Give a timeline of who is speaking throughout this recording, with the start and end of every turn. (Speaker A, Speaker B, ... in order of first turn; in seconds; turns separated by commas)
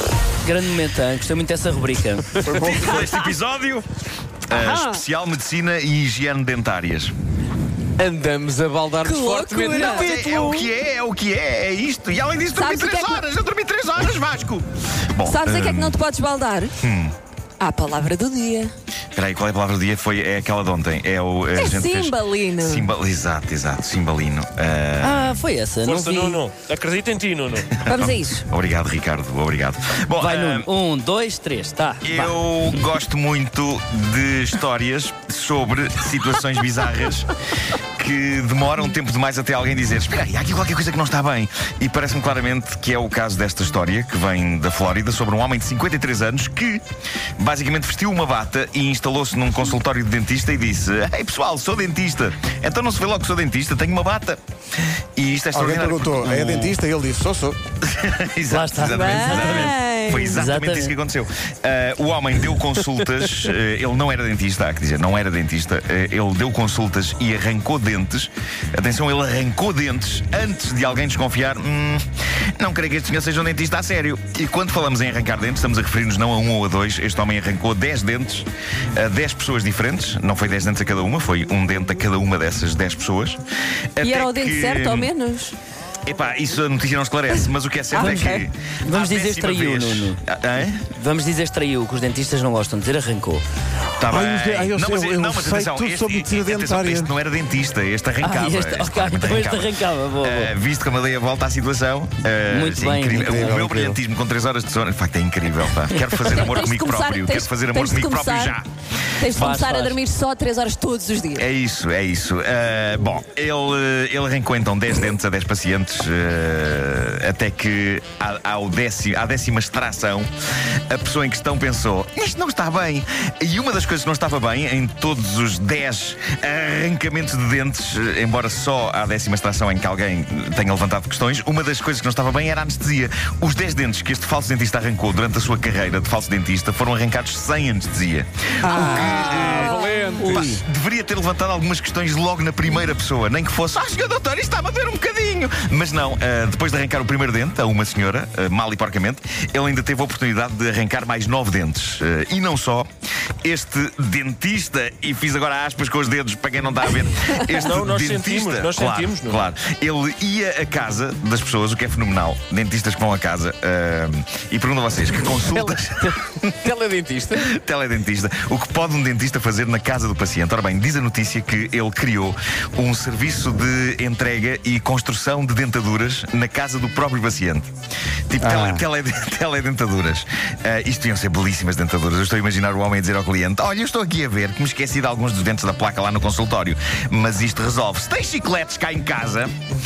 Speaker A: 0.4-2.4, Speaker B: 2.3-2.6, Speaker C: 2.4-3.2, Speaker D: 2.5-3.9, Speaker D: 4.5-7.1, Speaker B: 4.5-5.0, Speaker B: 8.0-10.7, Speaker E: 9.0-10.4, Speaker D: 9.8-16.0, Speaker E: 12.5-13.2, Speaker E: 15.2-16.8, Speaker D: 16.8-17.1, Speaker E: 17.6-18.7, Speaker D: 19.1-25.4, Speaker E: 21.5-22.9, Speaker A: 25.0-26.4, Speaker F: 25.8-27.8, Speaker D: 27.8-30.7, Speaker E: 27.9-28.4, Speaker A: 30.2-32.8, Speaker D: 32.0-37.3, Speaker D: 38.0-46.8, Speaker D: 47.4-54.4, Speaker D: 55.1-56.8, Speaker C: 55.5-57.6, Speaker D: 57.8-72.0, Speaker A: 58.5-59.7, Speaker E: 58.9-60.5, Speaker A: 60.3-60.9, Speaker D: 72.6-83.4, Speaker D: 84.0-85.1, Speaker E: 84.0-85.5, Speaker D: 86.0-90.8, Speaker E: 87.9-88.5, Speaker A: 88.8-90.2, Speaker A: 90.9-93.4, Speaker D: 94.0-108.7, Speaker C: 94.0-97.1, Speaker A: 98.2-100.5, Speaker A: 102.5-103.4, Speaker C: 103.2-104.0, Speaker E: 106.2-108.6, Speaker E: 109.2-111.4, Speaker A: 109.3-110.0, Speaker D: 111.3-120.3, Speaker D: 120.9-152.9, Speaker E: 138.6-140.3, Speaker B: 138.7-140.6, Speaker A: 140.2-140.6, Speaker D: 153.4-166.5, Speaker F: 157.5-159.5, Speaker B: 165.4-167.5, Speaker D: 167.3-177.7, Speaker D: 178.3-189.5, Speaker C: 178.4-178.8